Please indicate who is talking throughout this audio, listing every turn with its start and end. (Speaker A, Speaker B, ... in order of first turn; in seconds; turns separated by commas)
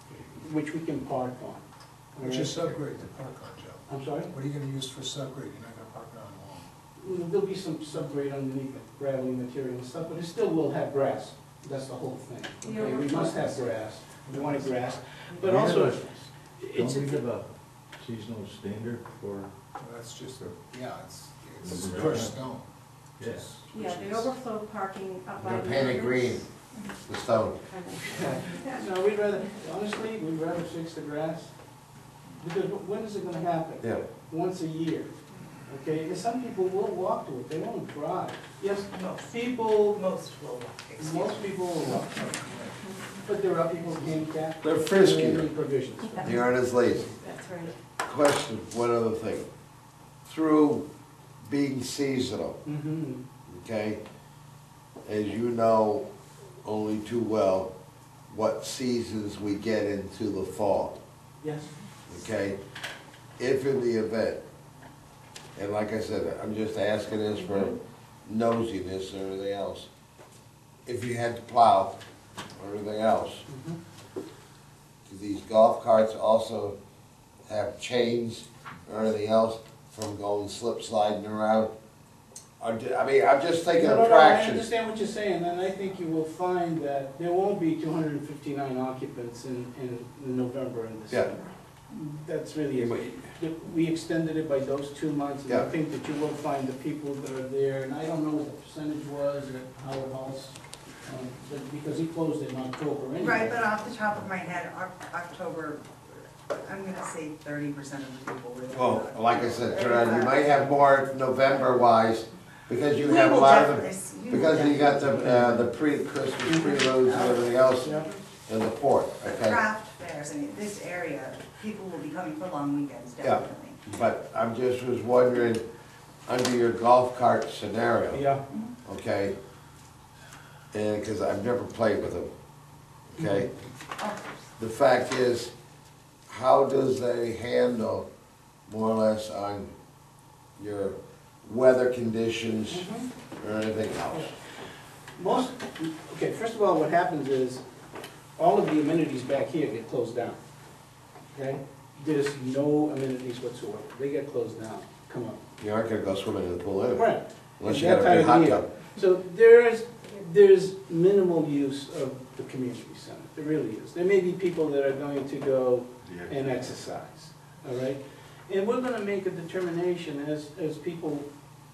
Speaker A: 0.2-1.6, Speaker A: 2.1-2.7, Speaker B: 2.2-6.7, Speaker A: 3.9-4.3, Speaker A: 7.0-17.3, Speaker C: 12.6-13.7, Speaker B: 14.2-15.0, Speaker D: 15.4-19.5, Speaker B: 19.8-22.7, Speaker D: 21.6-22.4, Speaker D: 23.2-23.5, Speaker B: 23.2-24.3, Speaker C: 23.7-26.9, Speaker E: 25.4-26.4, Speaker E: 27.1-27.6, Speaker C: 27.7-28.9, Speaker A: 27.9-31.5, Speaker A: 32.4-35.1, Speaker A: 35.7-38.9, Speaker F: 38.8-41.5, Speaker A: 41.0-42.4, Speaker B: 42.1-42.7, Speaker A: 43.2-46.4, Speaker E: 44.6-45.5, Speaker E: 46.2-47.1, Speaker C: 47.2-47.7, Speaker E: 48.0-49.5, Speaker E: 50.2-50.9, Speaker E: 51.4-52.6, Speaker A: 52.6-53.3, Speaker E: 53.5-54.0, Speaker E: 55.0-56.1, Speaker E: 56.6-57.7, Speaker E: 58.3-61.0, Speaker A: 61.4-61.7, Speaker E: 62.1-62.6, Speaker E: 63.4-64.4, Speaker E: 65.6-69.9, Speaker E: 70.9-72.0, Speaker E: 72.6-73.5, Speaker A: 73.5-73.8, Speaker E: 75.1-76.8, Speaker E: 77.5-81.7, Speaker E: 82.6-84.7, Speaker A: 83.8-91.3, Speaker A: 91.9-103.6, Speaker E: 92.8-93.2, Speaker F: 103.2-105.8, Speaker F: 106.5-110.8, Speaker E: 108.7-118.0, Speaker F: 113.0-115.2, Speaker A: 116.5-116.8, Speaker F: 116.5-118.2, Speaker A: 117.8-118.1, Speaker E: 118.5-119.6, Speaker F: 119.3-123.8, Speaker E: 123.2-125.6, Speaker E: 126.3-128.2, Speaker A: 128.1-128.4, Speaker E: 128.8-129.3, Speaker E: 130.7-132.3, Speaker E: 133.1-133.5, Speaker A: 133.2-133.4, Speaker F: 134.0-134.4, Speaker E: 134.6-135.5, Speaker E: 136.3-138.1, Speaker E: 138.7-139.7, Speaker E: 140.6-142.9, Speaker A: 142.7-143.1, Speaker E: 143.4-144.3, Speaker A: 145.2-147.6, Speaker A: 148.4-150.4, Speaker A: 151.3-155.4, Speaker E: 155.6-157.1, Speaker A: 157.0-171.3, Speaker E: 157.6-158.7, Speaker D: 166.1-166.3